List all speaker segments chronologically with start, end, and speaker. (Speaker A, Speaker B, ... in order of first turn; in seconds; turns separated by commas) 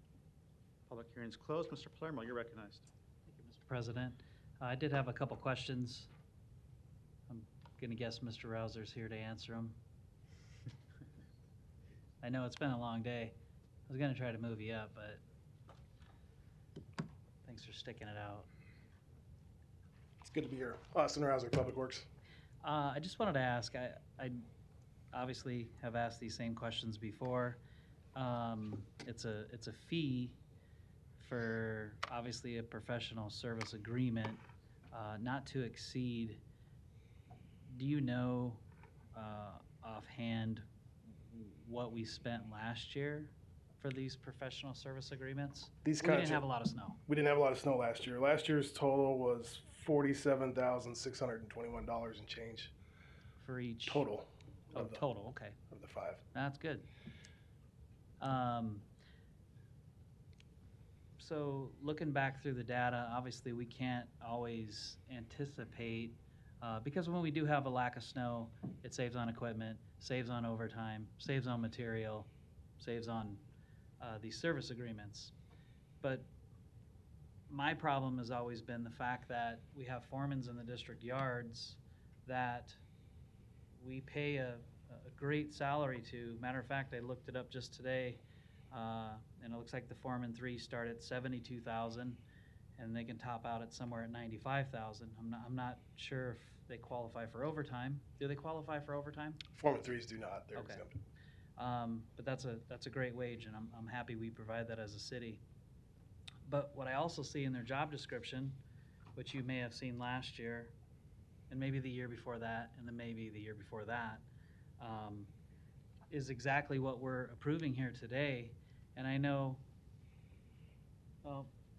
Speaker A: 0.9-2.9, Speaker B: 3.3-6.1, Speaker B: 7.3-9.8, Speaker B: 12.2-13.4, Speaker B: 13.9-15.2, Speaker B: 17.4-18.5, Speaker C: 20.2-22.1, Speaker B: 22.6-24.5, Speaker B: 25.1-27.6, Speaker B: 28.1-30.4, Speaker B: 31.2-36.4, Speaker B: 37.7-38.6, Speaker B: 39.1-47.0, Speaker C: 45.8-46.4, Speaker C: 47.1-52.7, Speaker B: 53.4-54.1, Speaker C: 53.9-55.0, Speaker B: 54.7-55.6, Speaker C: 55.7-56.2, Speaker B: 56.3-56.9, Speaker B: 58.2-58.9, Speaker B: 61.2-73.4, Speaker B: 74.0-75.3, Speaker B: 76.0-76.3, Speaker B: 77.5-82.8, Speaker B: 83.8-92.2, Speaker B: 92.8-99.4, Speaker C: 99.5-101.0, Speaker B: 100.5-100.9, Speaker B: 101.6-105.4, Speaker B: 106.4-108.6, Speaker B: 109.2-110.7, Speaker B: 111.5-114.2, Speaker B: 114.8-115.3, Speaker B: 116.1-119.6, Speaker B: 121.2-121.5